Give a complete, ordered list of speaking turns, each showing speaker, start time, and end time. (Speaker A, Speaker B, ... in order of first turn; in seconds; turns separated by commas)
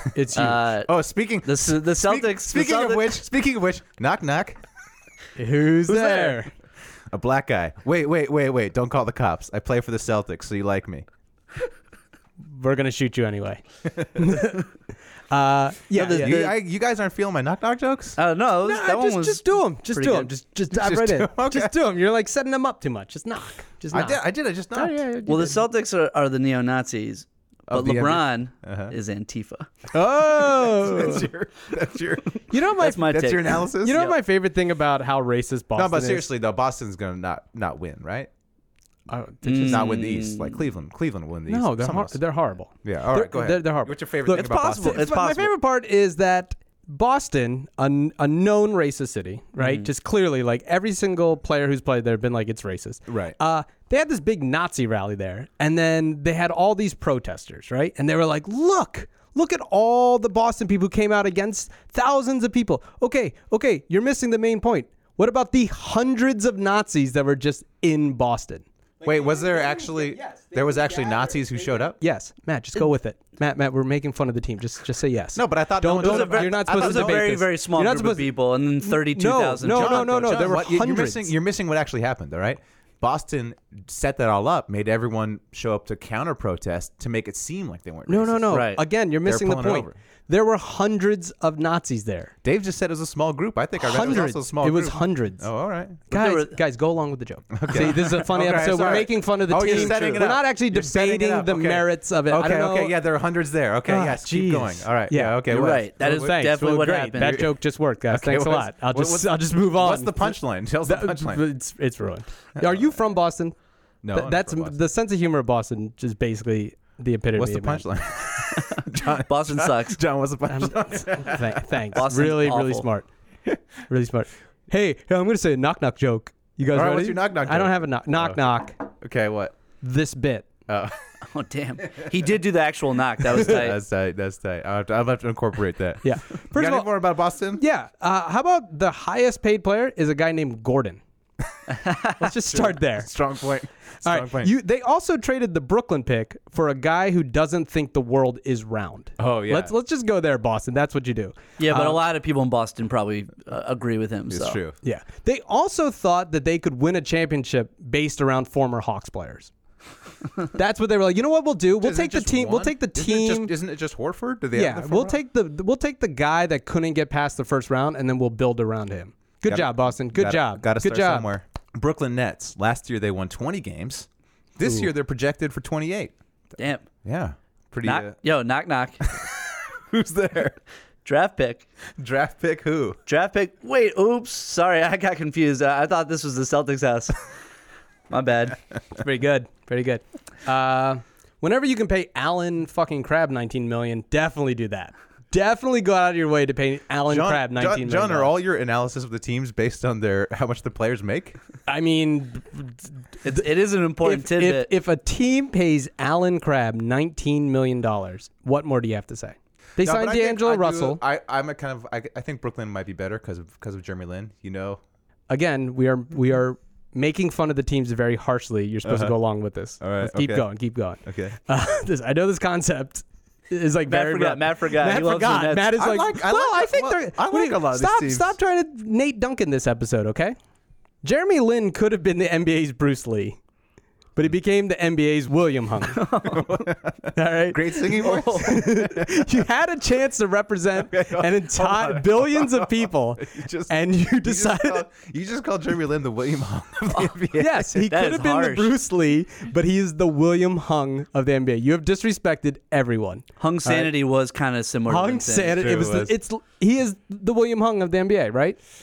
Speaker A: 0.1-0.7, Speaker B: 0.3-0.9, Speaker C: 0.8-4.6, Speaker B: 1.4-3.2, Speaker A: 5.3-6.5, Speaker C: 5.8-6.5, Speaker C: 7.1-11.1, Speaker A: 12.4-14.7, Speaker A: 15.3-16.4, Speaker B: 15.9-16.6, Speaker C: 16.2-18.2, Speaker B: 18.2-20.3, Speaker A: 18.6-24.2, Speaker C: 20.7-21.7, Speaker C: 23.9-25.3, Speaker A: 24.7-25.6, Speaker B: 25.3-29.7, Speaker C: 27.7-28.9, Speaker C: 29.9-34.1, Speaker A: 30.2-31.3, Speaker A: 32.5-33.2, Speaker B: 32.8-34.1, Speaker A: 33.7-36.3, Speaker C: 35.8-38.3, Speaker A: 39.1-39.9, Speaker B: 39.4-40.6, Speaker C: 39.5-42.2, Speaker A: 41.5-81.3, Speaker C: 42.8-45.1, Speaker B: 44.3-45.5, Speaker B: 49.6-49.9, Speaker C: 53.1-53.4, Speaker C: 69.0-72.0, Speaker C: 75.3-77.3, Speaker B: 76.0-80.2, Speaker C: 79.6-88.7, Speaker A: 88.1-92.3, Speaker B: 88.5-88.8, Speaker C: 89.2-89.9, Speaker C: 92.4-96.0, Speaker A: 93.8-95.5, Speaker A: 96.1-103.0, Speaker B: 96.1-96.5, Speaker C: 97.5-106.3, Speaker B: 99.6-100.0, Speaker A: 103.9-113.5, Speaker B: 105.5-107.5, Speaker C: 107.2-107.5, Speaker C: 108.1-111.4, Speaker C: 112.6-112.8, Speaker C: 114.0-114.8, Speaker A: 114.1-117.9, Speaker C: 117.3-121.8, Speaker B: 118.6-120.0, Speaker A: 120.5-123.1, Speaker B: 121.9-122.8, Speaker A: 123.9-128.8, Speaker C: 126.7-128.4, Speaker C: 129.0-129.6, Speaker A: 129.8-130.5, Speaker C: 130.7-131.0, Speaker B: 131.3-133.8, Speaker C: 133.2-137.6, Speaker A: 136.0-137.0, Speaker A: 137.6-141.0, Speaker B: 141.8-142.1, Speaker A: 142.2-143.1, Speaker C: 142.4-144.5, Speaker A: 144.0-152.0, Speaker C: 149.2-149.7, Speaker B: 151.6-154.6, Speaker C: 154.3-154.8, Speaker A: 154.8-159.5, Speaker A: 160.5-163.5, Speaker C: 161.8-165.2, Speaker A: 164.5-171.3, Speaker C: 169.5-176.1, Speaker B: 176.6-176.9, Speaker C: 177.0-178.2, Speaker B: 177.8-179.0, Speaker C: 179.0-180.6, Speaker B: 181.0-181.7, Speaker C: 182.0-183.0, Speaker B: 183.1-187.3, Speaker B: 188.1-188.6, Speaker A: 189.0-198.3, Speaker C: 197.1-201.4, Speaker A: 201.7-203.4, Speaker B: 203.2-204.7, Speaker A: 204.0-211.0, Speaker C: 209.8-214.8, Speaker A: 215.3-230.3, Speaker C: 218.8-219.1, Speaker C: 219.8-220.5, Speaker C: 221.0-221.3, Speaker B: 223.8-225.7, Speaker C: 225.7-228.3, Speaker A: 231.0-233.4, Speaker A: 234.2-236.1, Speaker B: 235.9-236.5, Speaker C: 236.2-239.3, Speaker A: 237.1-244.8, Speaker B: 238.0-238.6, Speaker C: 240.9-247.8, Speaker A: 247.3-253.9, Speaker B: 247.8-248.7, Speaker B: 253.4-255.6, Speaker A: 254.9-258.6, Speaker C: 255.4-256.1